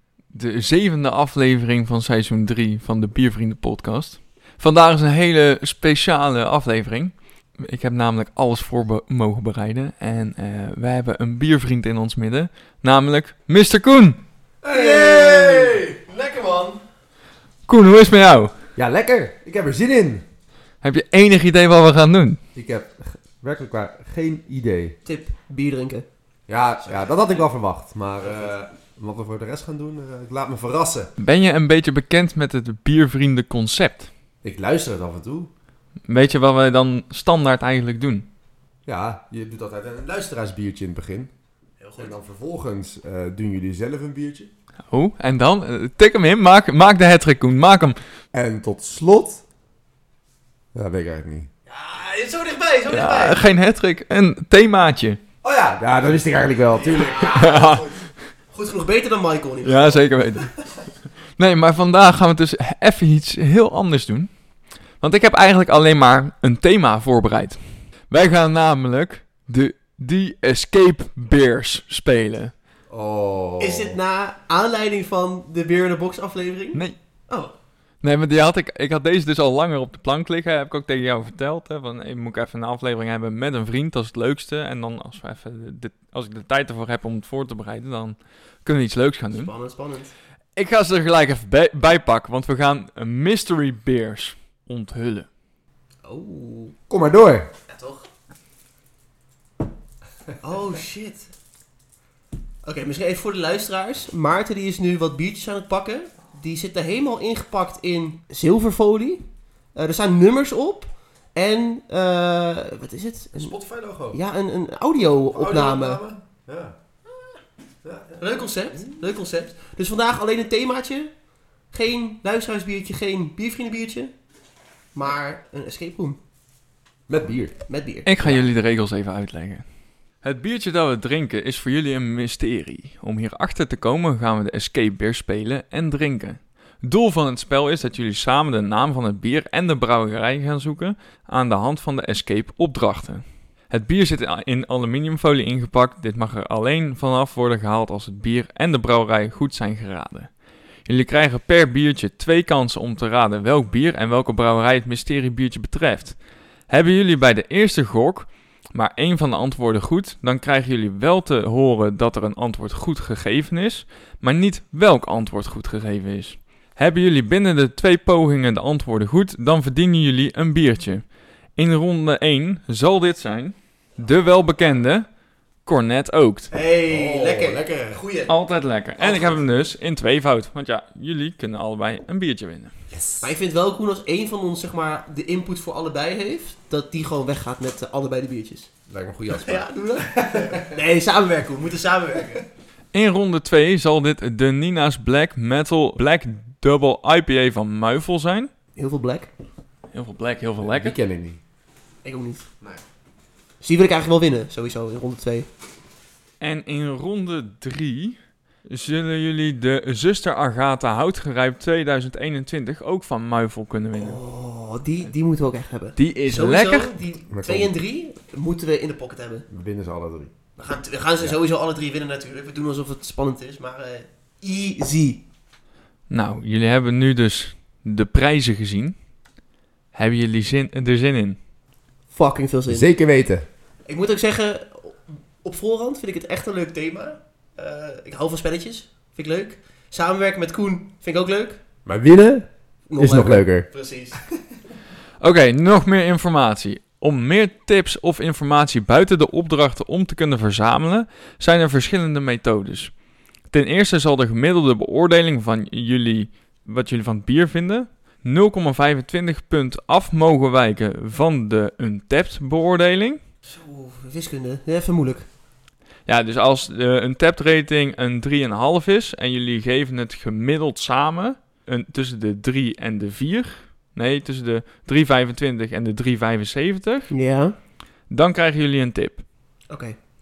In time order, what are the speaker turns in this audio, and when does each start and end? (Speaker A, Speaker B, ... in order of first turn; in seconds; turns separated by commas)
Speaker A: 0.3-14.2, Speaker B: 14.6-16.0, Speaker C: 14.7-16.8, Speaker A: 17.7-18.5, Speaker B: 18.8-20.2, Speaker A: 20.8-22.4, Speaker B: 22.5-24.9, Speaker C: 25.0-26.1, Speaker B: 26.5-31.1, Speaker C: 26.8-27.5, Speaker C: 28.2-28.5, Speaker A: 31.2-34.1, Speaker B: 34.4-35.5, Speaker A: 36.1-38.3, Speaker B: 38.9-41.3, Speaker C: 41.8-42.1, Speaker B: 42.0-44.5, Speaker A: 44.9-48.0, Speaker B: 48.3-49.4, Speaker B: 50.7-51.5, Speaker C: 51.7-53.4, Speaker A: 52.9-55.2, Speaker B: 55.4-57.8, Speaker C: 56.7-57.9, Speaker A: 57.3-57.9, Speaker C: 58.5-60.5, Speaker A: 59.6-60.5, Speaker A: 61.4-64.3, Speaker A: 65.0-72.5, Speaker B: 72.9-74.0, Speaker C: 73.6-77.5, Speaker A: 78.0-89.5, Speaker C: 89.3-90.1, Speaker A: 90.5-95.3, Speaker C: 96.0-96.7, Speaker B: 96.9-97.5, Speaker C: 97.7-98.1, Speaker C: 100.4-101.3, Speaker C: 102.6-109.2, Speaker C: 109.7-113.5, Speaker B: 113.3-114.2, Speaker C: 114.1-116.0, Speaker B: 115.3-116.7, Speaker B: 117.8-118.9, Speaker C: 118.2-121.1, Speaker C: 121.7-124.1, Speaker C: 124.9-126.2, Speaker B: 127.1-127.6, Speaker C: 127.7-128.4, Speaker A: 128.0-129.6, Speaker A: 130.2-150.3, Speaker A: 150.8-156.2, Speaker A: 156.7-175.1, Speaker A: 175.6-176.5, Speaker C: 176.5-178.3, Speaker B: 176.9-178.0, Speaker A: 178.3-182.7, Speaker C: 179.0-179.4, Speaker B: 182.9-183.3, Speaker C: 183.2-188.7, Speaker B: 188.9-190.8, Speaker C: 189.3-192.4, Speaker A: 192.9-198.5, Speaker C: 198.8-199.3, Speaker A: 199.9-200.9, Speaker B: 200.6-201.4, Speaker C: 202.0-202.4, Speaker C: 203.6-205.5, Speaker A: 206.4-208.2, Speaker A: 208.7-214.2, Speaker C: 213.9-219.4, Speaker A: 216.0-216.9, Speaker B: 217.3-217.7, Speaker B: 219.5-220.3, Speaker C: 220.6-225.2, Speaker A: 226.1-228.9, Speaker A: 229.9-231.4, Speaker C: 232.1-232.9, Speaker B: 232.7-233.4, Speaker C: 233.9-241.6, Speaker B: 241.8-242.5, Speaker C: 242.9-244.2, Speaker B: 243.0-243.7, Speaker A: 245.2-252.9, Speaker A: 253.5-263.2, Speaker C: 263.5-265.2, Speaker A: 266.1-277.1, Speaker C: 277.1-277.5, Speaker A: 278.1-279.2, Speaker C: 279.7-279.9